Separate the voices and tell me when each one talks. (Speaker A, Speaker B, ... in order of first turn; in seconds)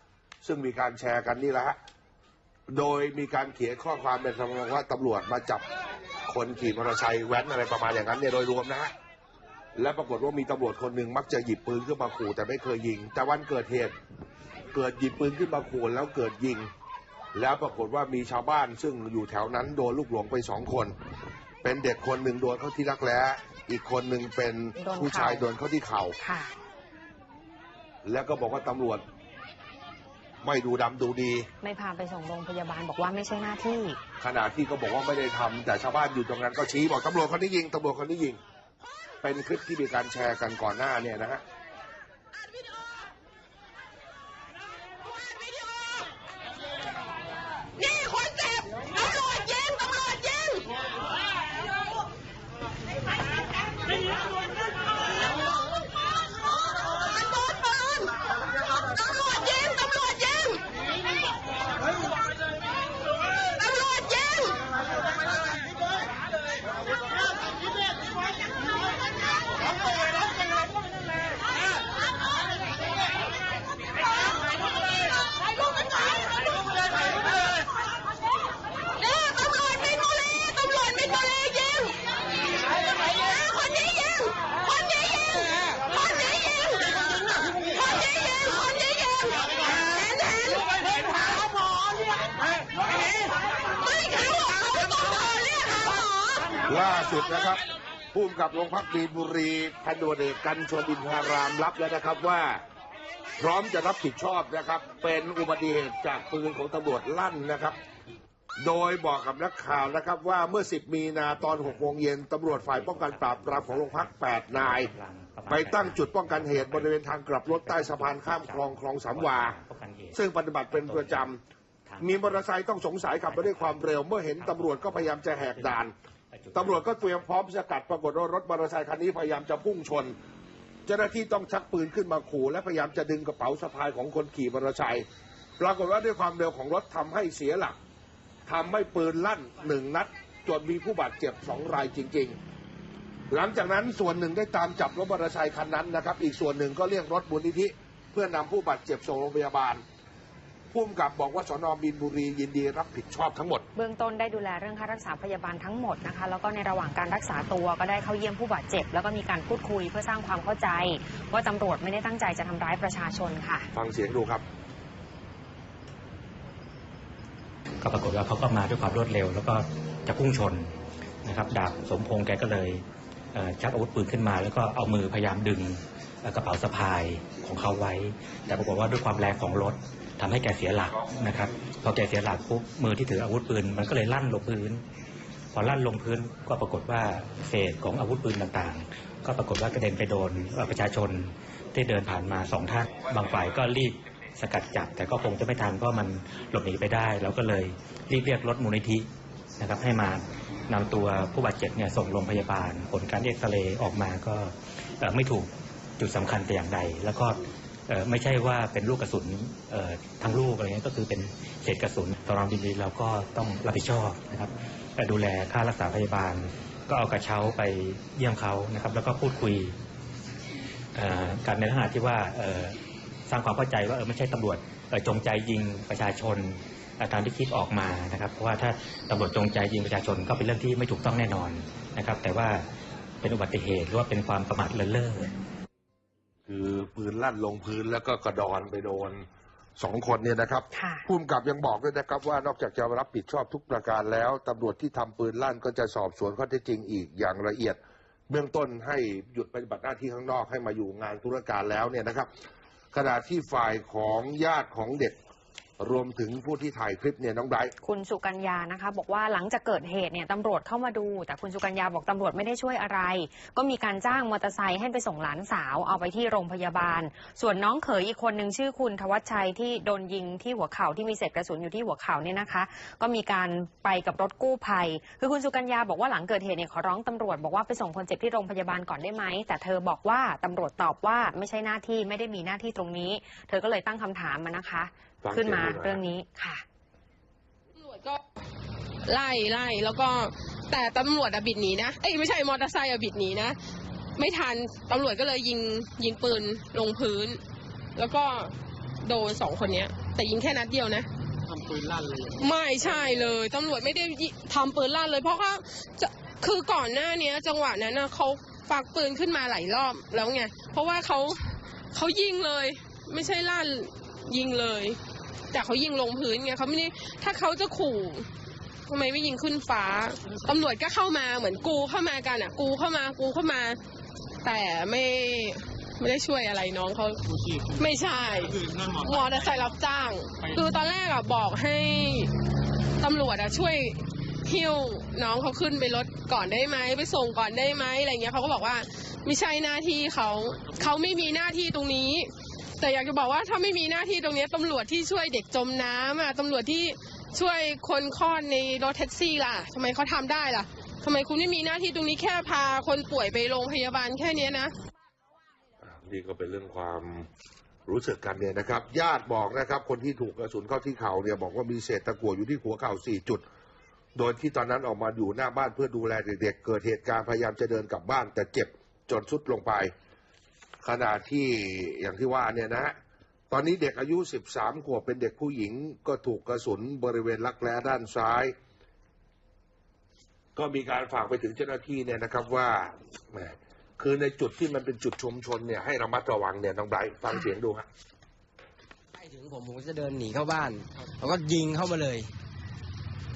Speaker A: 0.4-1.8, 2.7-5.6, 6.2-8.9, 9.8-13.9, 14.7-16.7, 17.3-20.9, 21.6-26.1, 28.0-29.0, 30.4-31.5, 34.2-38.4, 39.2-41.4, 96.7-97.6, 98.1-102.6, 103.4-107.8, 108.6-114.9, 115.5-119.6, 120.1-121.4, 122.0-125.9, 126.5-130.1, 130.8-135.0, 135.6-137.8, 138.5-142.4, 143.3-149.8, 150.7-153.7, 163.7-164.4, 236.5-239.2, 239.8-252.3, 252.9-255.2, 255.8-257.7, 285.2-286.0, 355.8-357.3, 357.9-363.4, 364.1-369.9, 370.8-372.9, 373.5-378.5, 380.6-387.9
Speaker B: 24.8-25.4, 26.2-26.5, 31.6-34.0, 153.7-163.7, 240.7-241.0, 257.8-286.6
Speaker C: 111.3-121.3, 121.8-122.5, 123.1-127.3, 167.8-170.7, 171.2-172.8, 173.3-184.8, 185.5-199.1, 199.6-219.7, 220.9-222.8, 223.3-232.6, 233.2-235.3
Speaker D: 287.7-288.2, 289.0-293.6, 294.2-297.4, 297.9-301.1, 302.4-315.0, 315.5-318.3, 318.9-323.8, 324.4-327.2, 327.8-332.3, 333.0-354.7
Speaker E: 301.4-303.4, 327.2-329.9, 330.4-330.7, 340.6-341.3
Speaker F: 389.1-392.3